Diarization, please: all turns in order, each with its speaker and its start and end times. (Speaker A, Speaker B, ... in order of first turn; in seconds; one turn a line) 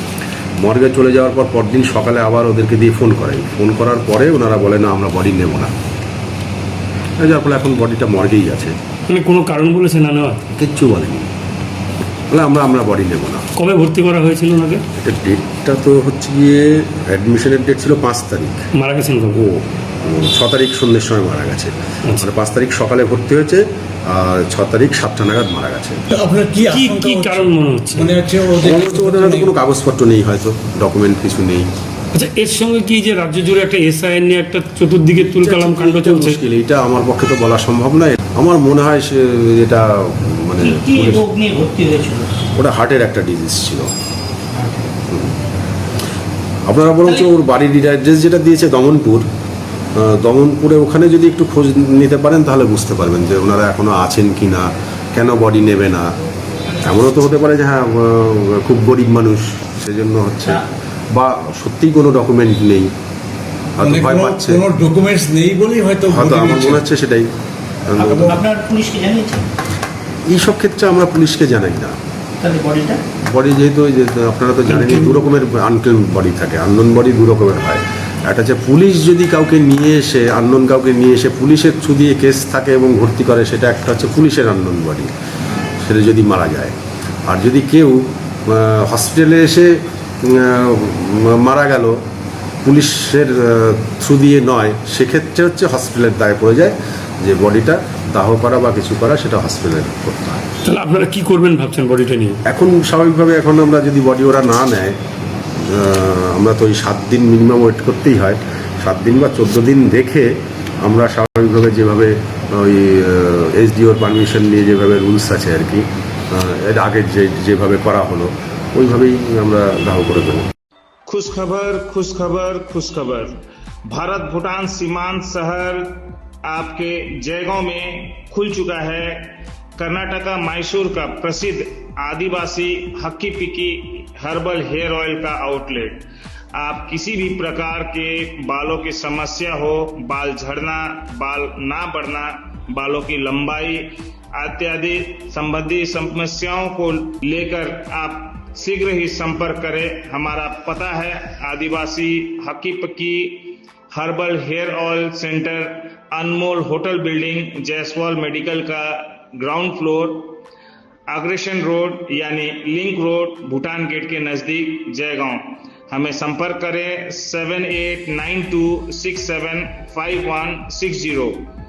Speaker A: 0.6-5.7
Speaker A: 7.2-8.7
Speaker B: 9.1-10.4
Speaker A: 10.5-11.3
Speaker A: 12.3-13.4
Speaker B: 13.6-14.8
Speaker A: 15.0-18.7
Speaker B: 18.8-19.4
Speaker A: 19.3-26.0
Speaker C: 26.1-29.5
Speaker B: 26.7-28.2
Speaker A: 28.6-31.7
Speaker B: 32.1-36.4
Speaker A: 35.2-41.3
Speaker D: 40.6-42.3
Speaker A: 42.5-43.9
Speaker D: 44.5-44.9
Speaker A: 46.7-49.2
Speaker A: 50.0-56.1
Speaker A: 56.8-62.9
Speaker A: 63.8-64.6
Speaker C: 63.8-66.8
Speaker A: 66.1-67.3
Speaker A: 67.9-68.4
Speaker C: 68.0-68.3
Speaker D: 68.1-69.5
Speaker A: 70.3-72.0
Speaker D: 72.4-73.0
Speaker A: 73.3-85.1
Speaker C: 74.7-75.2
Speaker A: 85.8-86.7
Speaker A: 87.3-92.0
Speaker A: 92.6-100.4
Speaker B: 100.6-102.4
Speaker A: 102.5-104.9
Speaker A: 105.6-110.3
Speaker A: 110.8-120.5
Speaker E: 121.1-123.4
Speaker E: 123.9-160.4
Speaker E: 161.1-171.5